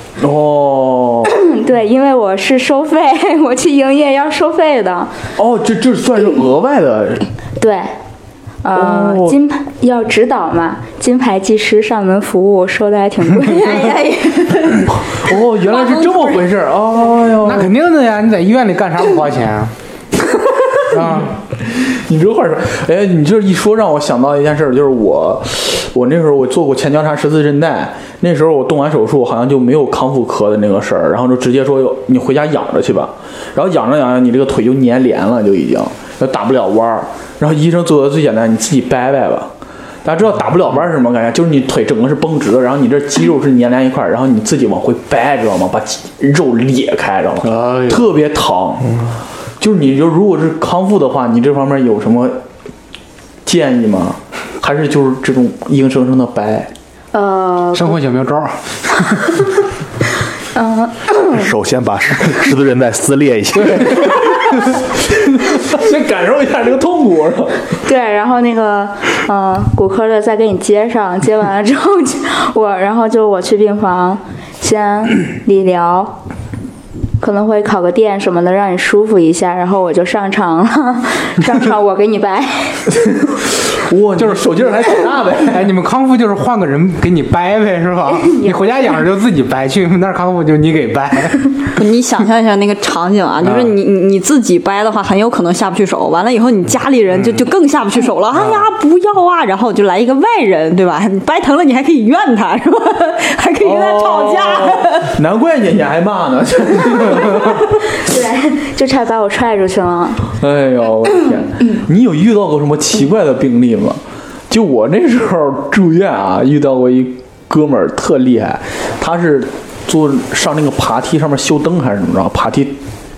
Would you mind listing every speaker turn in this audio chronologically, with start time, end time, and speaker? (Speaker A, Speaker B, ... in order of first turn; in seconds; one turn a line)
Speaker A: 0.2-1.3
Speaker B: 1.4-5.1
Speaker A: 5.4-7.3
Speaker B: 7.6-8.0
Speaker B: 8.6-13.9
Speaker A: 8.8-9.4
Speaker C: 13.4-14.9
Speaker A: 14.8-17.7
Speaker C: 15.6-16.4
Speaker D: 17.4-19.7
Speaker D: 20.9-21.3
Speaker A: 21.7-39.5
Speaker A: 40.0-49.1
Speaker D: 47.4-48.1
Speaker A: 49.6-52.4
Speaker A: 53.5-56.7
Speaker B: 57.1-58.0
Speaker D: 57.8-59.4
Speaker B: 60.5-61.5
Speaker E: 61.5-63.5
Speaker A: 61.6-67.6
Speaker D: 63.6-64.1
Speaker B: 67.9-76.2
Speaker B: 77.2-82.8
Speaker A: 82.9-85.7
Speaker D: 84.2-84.5
Speaker D: 85.5-91.5
Speaker C: 91.8-105.1
Speaker D: 93.4-93.7
Speaker A: 103.6-107.7
Speaker B: 108.0-110.3
Speaker A: 110.3-122.8